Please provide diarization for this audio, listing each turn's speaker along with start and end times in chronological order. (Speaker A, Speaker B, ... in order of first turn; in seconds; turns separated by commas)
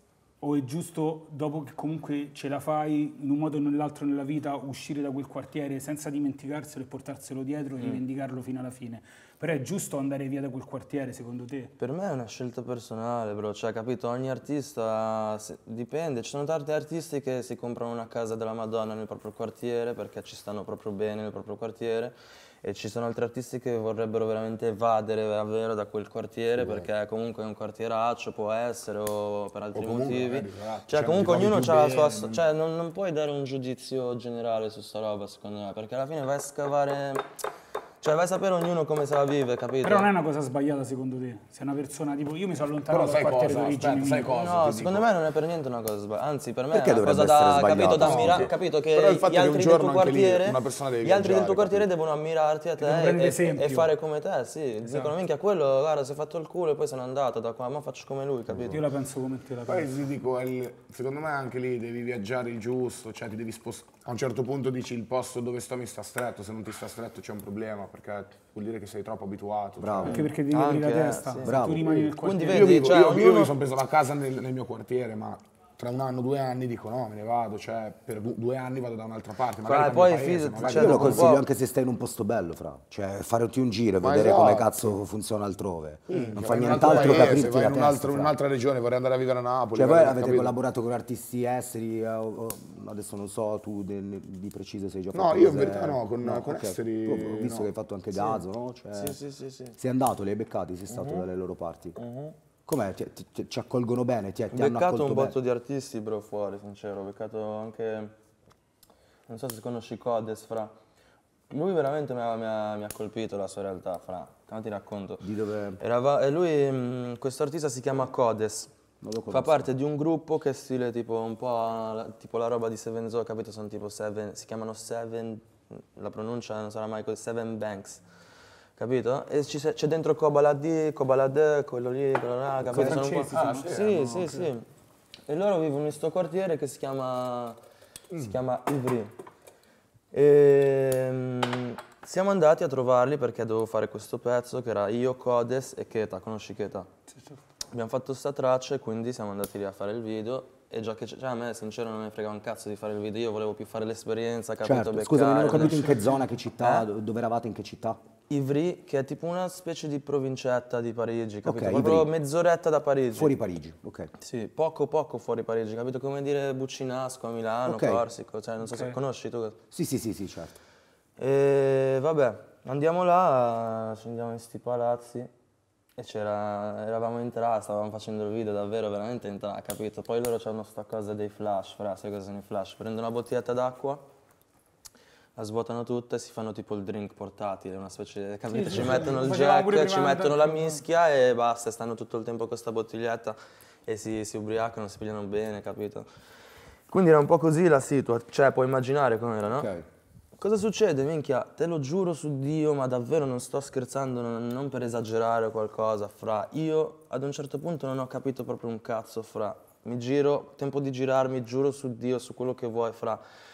Speaker A: 0.4-11.7, Speaker B: 11.8-37.3, Speaker C: 26.6-26.9, Speaker C: 29.8-32.4, Speaker B: 38.0-40.1, Speaker A: 39.8-44.3, Speaker C: 42.9-45.1, Speaker B: 44.3-58.8, Speaker D: 46.7-48.5, Speaker C: 48.0-51.9, Speaker A: 52.8-53.9, Speaker A: 54.9-55.1, Speaker C: 58.5-58.8, Speaker A: 58.7-60.0, Speaker C: 59.7-70.2, Speaker D: 69.8-70.2, Speaker B: 70.0-73.5, Speaker A: 70.1-72.9, Speaker D: 71.4-72.1, Speaker C: 72.5-81.4, Speaker B: 79.6-81.5, Speaker D: 80.6-88.4, Speaker C: 84.0-85.0, Speaker C: 86.1-90.5, Speaker B: 86.8-87.3, Speaker D: 89.7-99.2, Speaker C: 95.1-97.7, Speaker B: 98.9-99.8, Speaker D: 99.8-102.0, Speaker B: 102.0-102.3, Speaker D: 102.7-105.4, Speaker B: 104.5-108.1, Speaker B: 109.3-110.7, Speaker B: 111.5-115.3, Speaker D: 115.2-115.8, Speaker B: 115.8-118.7, Speaker D: 119.0-119.7, Speaker B: 119.3-128.0, Speaker B: 128.8-134.7, Speaker D: 132.7-133.0, Speaker A: 132.7-133.7, Speaker C: 132.8-134.4, Speaker B: 135.3-137.6, Speaker B: 138.1-139.1, Speaker B: 140.1-146.9, Speaker A: 147.1-147.4, Speaker B: 147.7-156.0, Speaker D: 154.6-158.0, Speaker A: 155.5-156.2, Speaker B: 156.6-156.9, Speaker B: 158.3-163.3, Speaker D: 161.4-162.1, Speaker D: 163.1-164.1, Speaker B: 164.2-169.6, Speaker D: 167.7-168.0, Speaker D: 169.7-170.6, Speaker B: 171.2-175.3, Speaker B: 176.0-184.1, Speaker B: 185.4-196.1, Speaker A: 188.5-190.8, Speaker B: 196.9-199.7, Speaker D: 199.6-199.9, Speaker B: 200.4-213.2